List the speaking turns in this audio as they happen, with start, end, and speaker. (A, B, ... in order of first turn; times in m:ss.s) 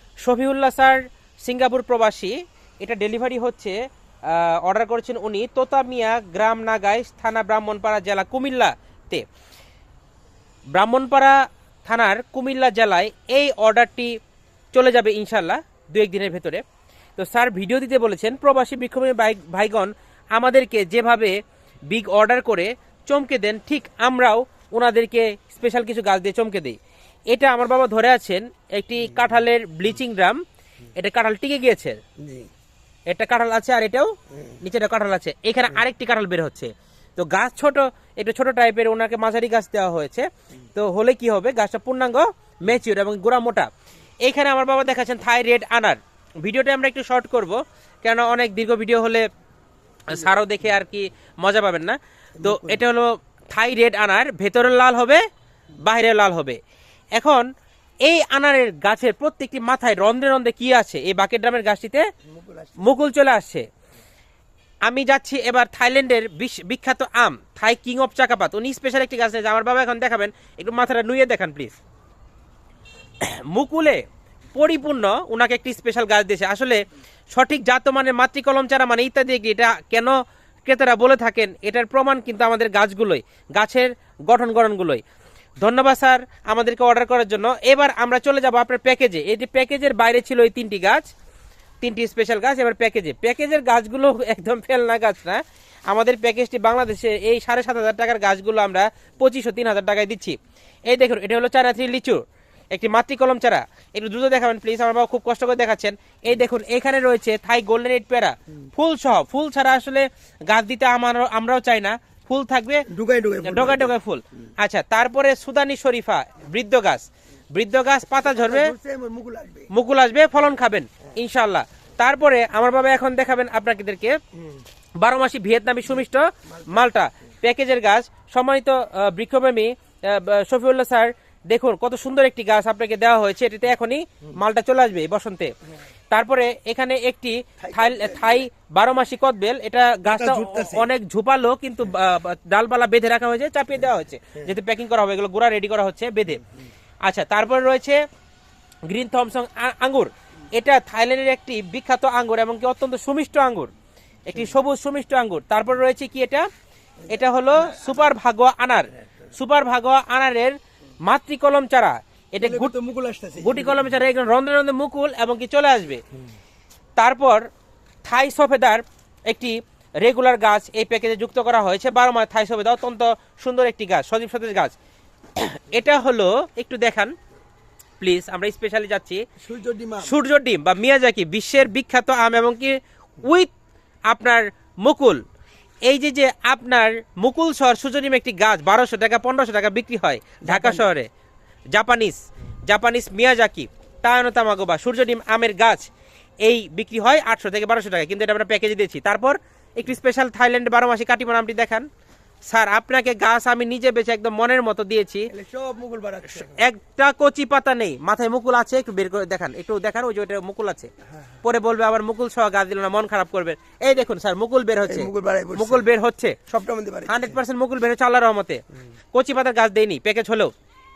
0:00.2-0:03.8 A
0:04.3-0:09.2 A
0:10.7-0:14.1 A
0:14.7-0:16.6 A
0:17.2-0:21.4 A
0:21.9-0:26.8 A
0:27.3-0:30.4 A
0:31.0-0:32.0 A
0:32.2-0:32.5 B
0:33.1-0:43.7 A
0:44.2-0:49.2 A
0:50.1-0:55.2 A
0:52.4-0:52.8 B
0:55.8-0:56.6 A
0:57.2-0:57.4 A
0:58.0-1:02.0 A
1:02.3-1:02.9 B
1:02.8-1:03.6 A
1:04.8-1:11.7 A
1:13.2-1:14.0 A
1:14.6-1:16.8 A
1:17.3-1:20.1 A
1:20.6-1:25.0 A
1:25.6-1:31.1 A
1:31.8-1:40.4 A
1:40.9-1:52.8 A
1:52.9-1:53.9 B
1:53.4-1:58.7 A
1:58.2-1:59.7 B
1:59.7-2:04.1 A
2:05.0-2:15.5 A
2:06.5-2:06.8 B
2:16.1-2:26.4 A
2:17.6-2:18.4 B
2:20.1-2:20.8 B
2:27.1-2:28.0 A
2:28.9-2:33.7 A
2:34.3-2:36.5 A
2:37.1-2:38.1 B
2:37.1-2:42.7 A
2:42.4-2:43.9 B
2:43.4-2:46.0 A
2:47.0-2:47.5 A
2:48.0-2:54.8 A
2:55.4-2:57.1 A
2:58.0-2:59.2 A
2:59.4-3:00.2 B
3:00.0-3:03.5 A
3:04.1-3:05.2 A
3:05.9-3:11.1 A
3:10.4-3:10.9 B
3:11.7-3:15.9 A
3:16.4-3:21.8 A
3:22.5-3:25.3 A
3:25.3-3:26.6 B
3:26.3-3:30.9 A
3:31.4-3:36.4 A
3:34.8-3:35.9 B
3:36.5-3:37.4 B
3:37.1-3:38.6 A
3:39.1-3:40.5 A